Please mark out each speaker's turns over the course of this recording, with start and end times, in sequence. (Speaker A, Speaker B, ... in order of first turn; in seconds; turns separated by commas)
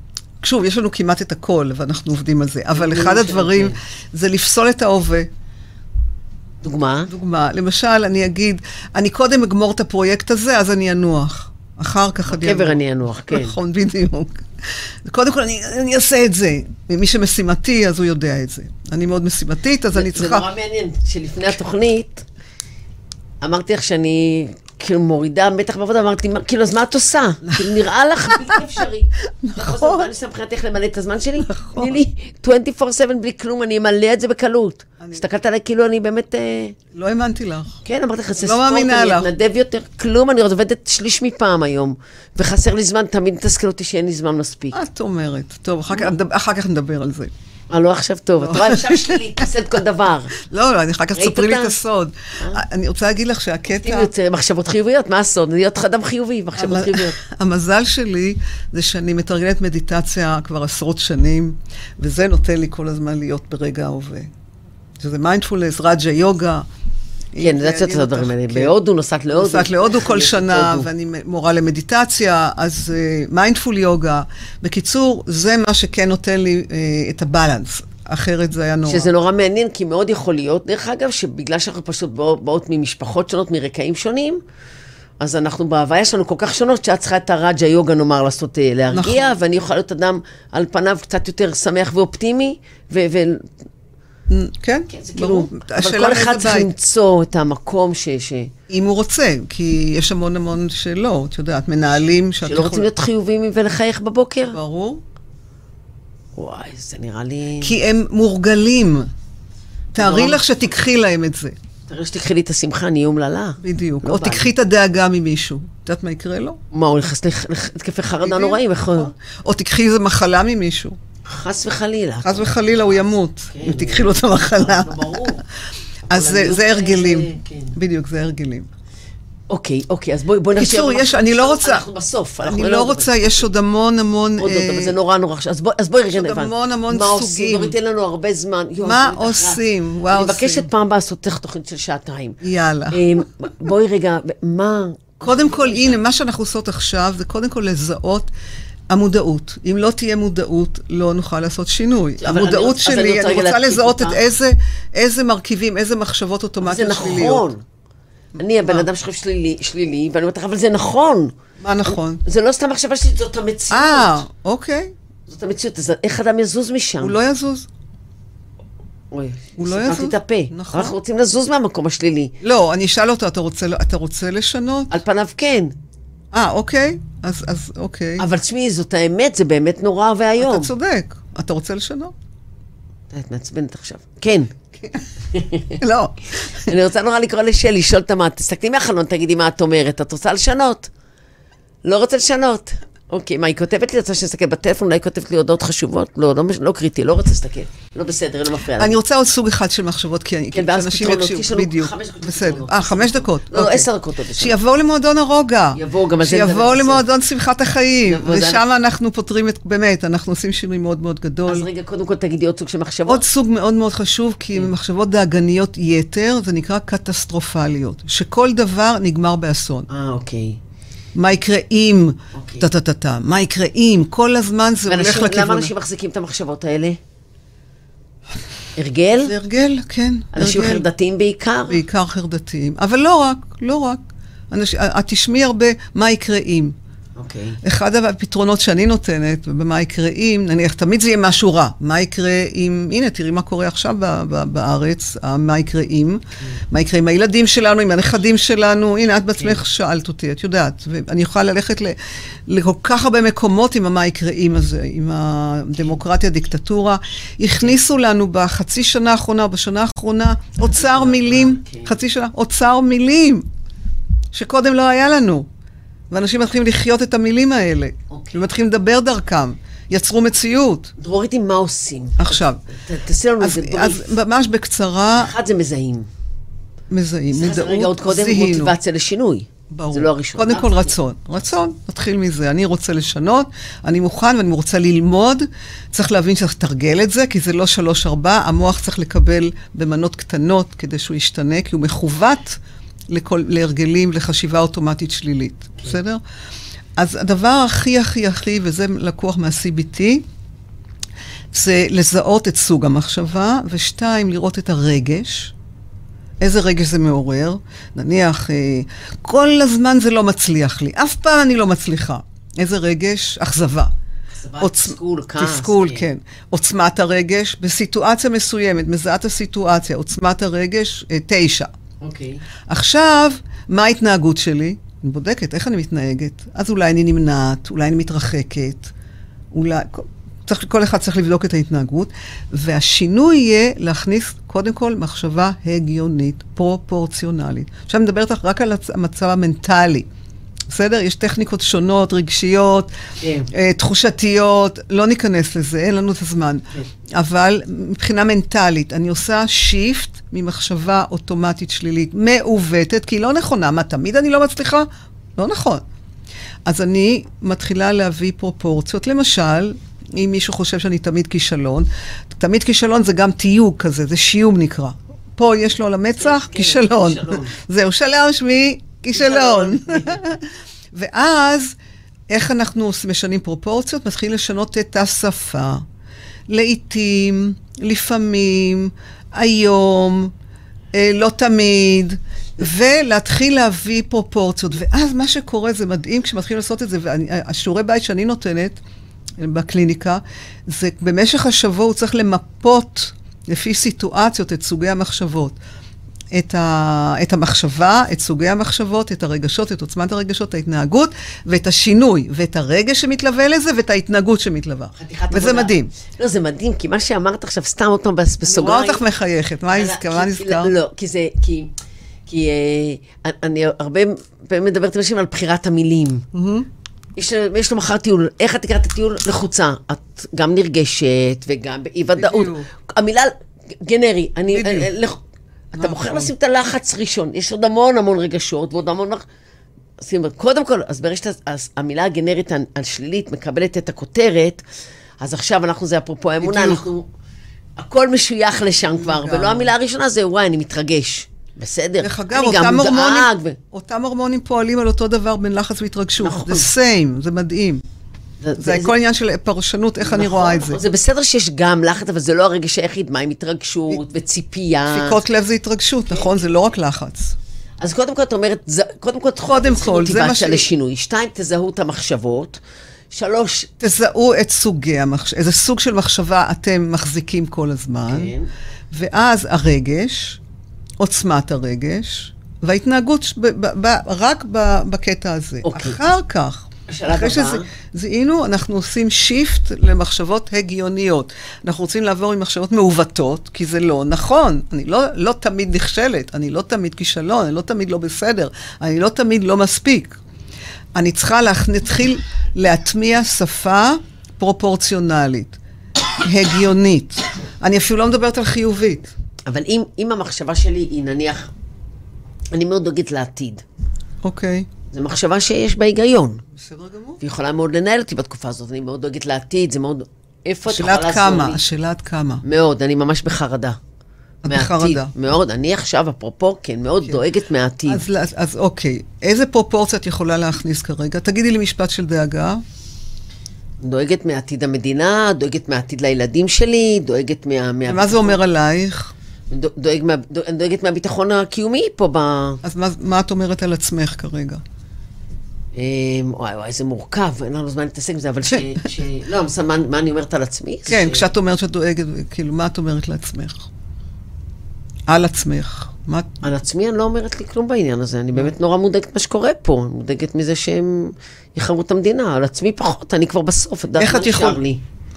Speaker A: 0.4-5.3, Speaker B: 2.7-3.8, Speaker B: 6.6-7.1, Speaker A: 7.1-20.5, Speaker B: 12.3-13.6, Speaker B: 19.9-22.2, Speaker B: 23.4-36.8, Speaker A: 28.3-28.8, Speaker A: 29.4-30.1, Speaker A: 31.4-32.0, Speaker A: 36.9-37.8, Speaker B: 37.8-44.8, Speaker A: 38.4-39.3, Speaker A: 44.7-47.3, Speaker B: 47.7-50.4, Speaker A: 48.4-49.4, Speaker A: 50.4-54.1, Speaker B: 51.1-51.8, Speaker B: 53.7-57.2, Speaker A: 56.6-64.3, Speaker A: 65.0-66.7, Speaker A: 67.3-68.7, Speaker B: 67.4-70.9, Speaker A: 69.3-79.1, Speaker B: 78.8-84.4, Speaker B: 85.2-93.5, Speaker A: 88.9-89.3, Speaker A: 94.3-96.7, Speaker B: 94.9-98.5, Speaker A: 98.7-102.9, Speaker B: 102.3-104.6, Speaker A: 104.5-105.0, Speaker B: 106.3-107.8, Speaker A: 107.6-109.1, Speaker B: 109.9-110.4, Speaker A: 109.9-111.5, Speaker B: 111.9-114.5, Speaker A: 113.6-116.6, Speaker B: 116.7-119.1, Speaker A: 118.2-121.0, Speaker B: 121.2-123.0, Speaker A: 122.2-125.4, Speaker B: 123.5-125.4, Speaker B: 126.1-127.8, Speaker A: 126.1-128.7, Speaker B: 129.5-133.5, Speaker A: 130.5-131.9, Speaker A: 132.4-134.9, Speaker B: 134.4-142.4, Speaker A: 136.1-137.7, Speaker A: 138.8-140.7, Speaker A: 142.4-143.0, Speaker B: 142.9-146.0, Speaker A: 145.2-148.3, Speaker A: 148.9-157.5, Speaker B: 152.2-154.2, Speaker B: 156.6-157.6, Speaker B: 158.4-164.2, Speaker A: 158.6-158.9, Speaker A: 161.6-162.2, Speaker A: 163.7-164.9, Speaker B: 165.3-167.2, Speaker A: 167.0-167.7, Speaker B: 169.1-172.3, Speaker A: 169.6-170.9, Speaker A: 172.4-175.0, Speaker B: 174.9-175.7, Speaker A: 176.3-178.2, Speaker B: 178.2-180.7, Speaker A: 180.4-182.1, Speaker B: 183.1-184.5, Speaker B: 185.3-185.8, Speaker A: 185.8-186.7, Speaker B: 186.6-190.9, Speaker B: 191.8-199.0, Speaker A: 198.8-211.7, Speaker B: 200.5-204.6, Speaker B: 205.7-207.0, Speaker B: 208.1-208.6, Speaker B: 211.4-213.2, Speaker A: 213.1-219.9, Speaker B: 219.9-220.6, Speaker A: 221.1-225.7, Speaker B: 222.3-222.7, Speaker B: 224.9-227.0, Speaker B: 228.8-229.3, Speaker A: 229.2-230.8, Speaker B: 230.3-231.8, Speaker A: 231.7-234.0, Speaker A: 234.5-236.8, Speaker B: 237.2-237.6, Speaker A: 237.6-263.5, Speaker B: 260.7-261.9, Speaker A: 264.3-265.4, Speaker A: 266.1-270.9, Speaker B: 268.1-268.4, Speaker B: 271.0-274.1, Speaker A: 272.2-272.6, Speaker A: 273.4-275.3, Speaker B: 275.1-276.1, Speaker A: 276.9-278.7, Speaker B: 277.3-280.9, Speaker A: 279.7-296.2, Speaker A: 296.9-300.2, Speaker A: 301.5-305.5, Speaker A: 306.4-313.9, Speaker B: 314.4-316.1, Speaker A: 314.6-321.7, Speaker B: 322.0-322.4, Speaker A: 322.7-328.9, Speaker A: 329.5-340.1, Speaker A: 340.7-342.9, Speaker B: 343.2-343.5, Speaker A: 343.5-355.8, Speaker A: 356.6-371.8, Speaker B: 366.2-367.6, Speaker B: 369.1-370.4, Speaker A: 372.3-375.8, Speaker A: 376.5-380.3, Speaker A: 380.9-388.8, Speaker A: 389.4-395.6, Speaker A: 396.3-405.9, Speaker B: 404.9-409.0, Speaker A: 408.4-410.7, Speaker B: 409.7-411.7, Speaker B: 412.3-416.2, Speaker A: 416.3-416.7, Speaker B: 417.1-425.2, Speaker A: 422.2-422.7, Speaker A: 424.5-424.9, Speaker B: 425.7-429.2, Speaker A: 425.8-426.3, Speaker B: 430.0-434.6, Speaker B: 435.2-437.1, Speaker A: 436.4-436.8, Speaker B: 437.8-443.6, Speaker A: 438.9-439.7, Speaker A: 442.0-447.8, Speaker B: 446.2-446.7, Speaker B: 448.4-448.9, Speaker A: 448.6-450.8, Speaker B: 450.0-455.2, Speaker A: 454.9-457.3, Speaker B: 457.8-463.7, Speaker A: 459.4-460.6, Speaker A: 463.8-468.3, Speaker B: 468.1-468.5, Speaker A: 468.9-470.4, Speaker A: 471.0-490.2, Speaker B: 475.6-476.0, Speaker B: 476.9-477.7, Speaker A: 490.9-495.6, Speaker A: 496.2-499.1, Speaker B: 499.5-501.5, Speaker B: 502.5-503.6, Speaker A: 504.2-504.7, Speaker B: 504.9-506.4, Speaker A: 506.6-507.2, Speaker B: 507.2-511.6, Speaker A: 510.6-512.4, Speaker B: 512.4-513.8, Speaker A: 514.4-515.1, Speaker B: 514.5-518.0, Speaker A: 517.9-522.6, Speaker B: 523.8-528.4, Speaker A: 527.9-529.1, Speaker B: 529.5-532.6, Speaker A: 532.6-534.6, Speaker B: 535.7-541.3, Speaker A: 540.9-543.7, Speaker A: 545.1-546.3, Speaker B: 546.4-554.8, Speaker A: 554.0-554.6